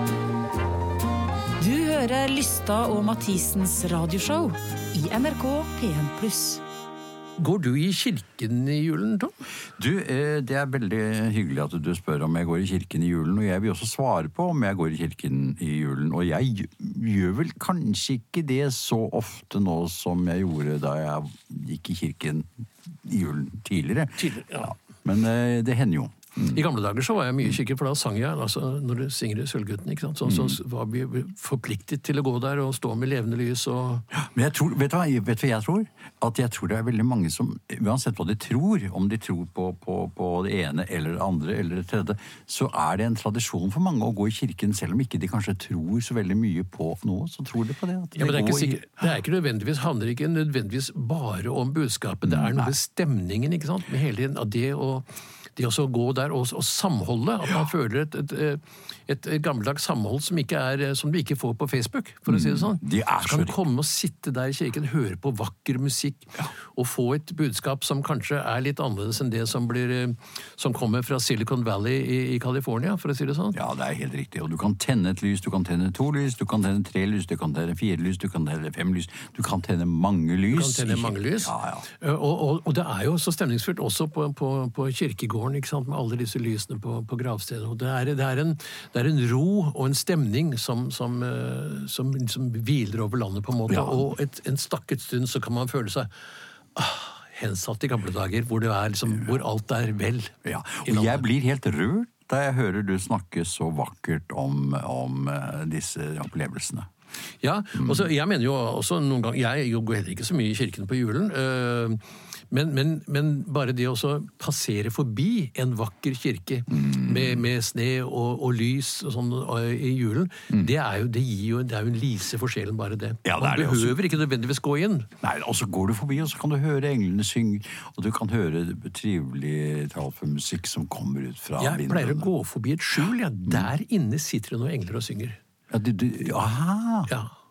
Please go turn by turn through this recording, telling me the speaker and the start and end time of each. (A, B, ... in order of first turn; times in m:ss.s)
0:01.6-0:06.6 A
0:07.4-0:09.3 B
0:09.8-0:26.6 C
0:24.2-0:24.7 B
0:26.5-0:34.0 B
0:30.2-0:30.6 C
0:34.1-0:48.8 C
0:48.2-1:13.6 B
0:52.2-0:52.7 C
1:02.3-1:03.6 C
1:13.5-1:21.8 C
1:20.5-1:36.1 B
1:33.7-1:34.1 C
1:36.7-1:41.2 B
1:40.4-1:46.9 C
1:47.4-2:05.1 B
1:47.7-1:48.1 C
1:56.7-1:57.4 C
2:03.2-2:04.0 C
2:05.2-2:12.3 C
2:11.6-2:15.4 B
2:15.7-2:17.1 C
2:17.1-2:17.3 B